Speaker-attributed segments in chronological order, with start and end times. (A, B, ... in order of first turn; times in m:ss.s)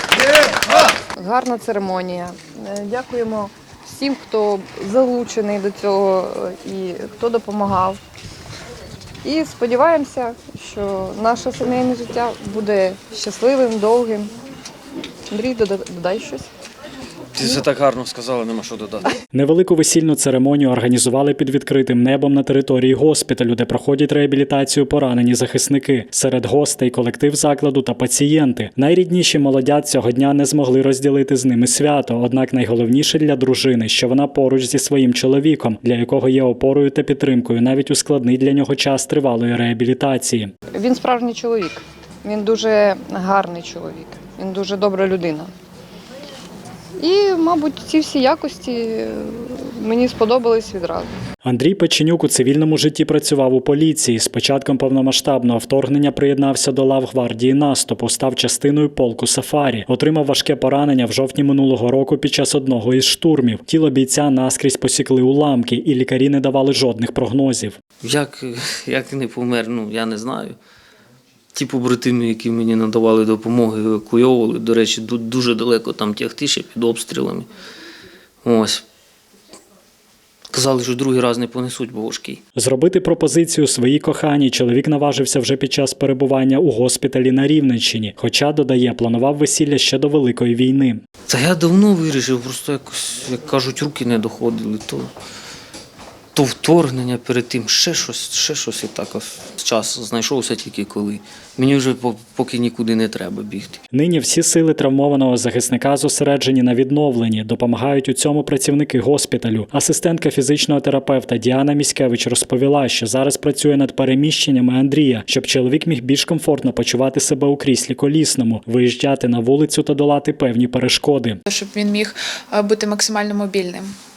0:01.2-0:08.0 A
0:09.2-0:14.3 A
0:15.3-0:16.5 A
0:17.4-0:19.1 B
0:19.3-0:40.5 C
0:40.7-0:45.5 A
0:47.0-0:51.1 A
0:51.4-1:07.8 C
1:08.0-1:10.6 B
1:11.5-1:17.5 B
1:18.4-1:18.8 B
1:20.5-1:22.4 B
1:22.6-1:31.0 C
1:31.3-1:35.1 B
1:36.3-1:43.8 B
1:43.9-2:01.4 C
2:01.5-2:03.9 D